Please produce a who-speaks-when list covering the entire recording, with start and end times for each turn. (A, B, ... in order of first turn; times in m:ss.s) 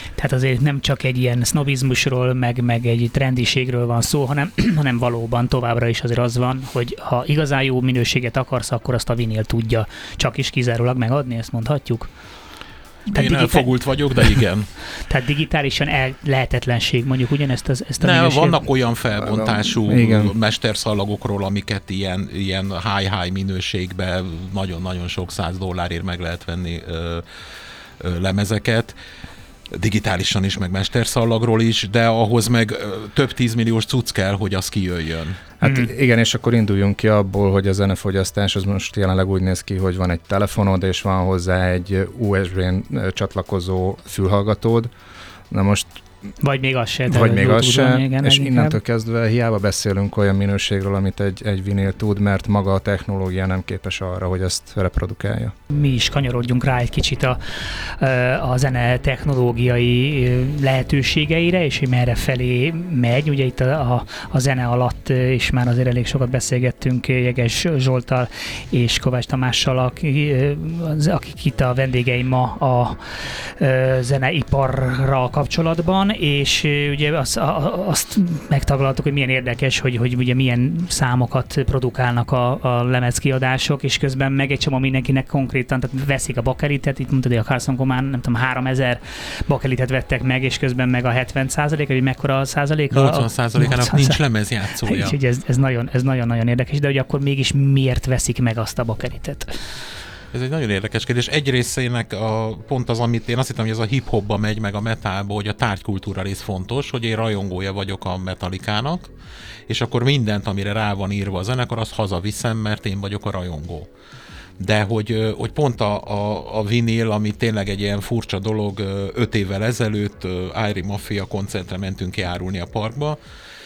0:00.2-0:12.1 A
0:13.1-0:13.7 A
0:13.1-0:14.7 B
0:15.0-0:18.6 A
0:18.0-0:27.2 B
0:19.2-0:20.3 C
0:28.0-0:29.0 B
0:29.7-0:35.4 B
0:35.6-0:44.9 C
0:35.6-0:35.9 A
0:45.5-0:45.9 C
0:46.4-0:48.8 A
0:47.1-0:55.5 C
0:55.7-1:34.2 A
1:32.9-1:35.2 B
1:34.8-1:39.6 A
1:40.3-1:49.1 B
1:49.7-1:53.9 B
1:54.6-2:03.2 B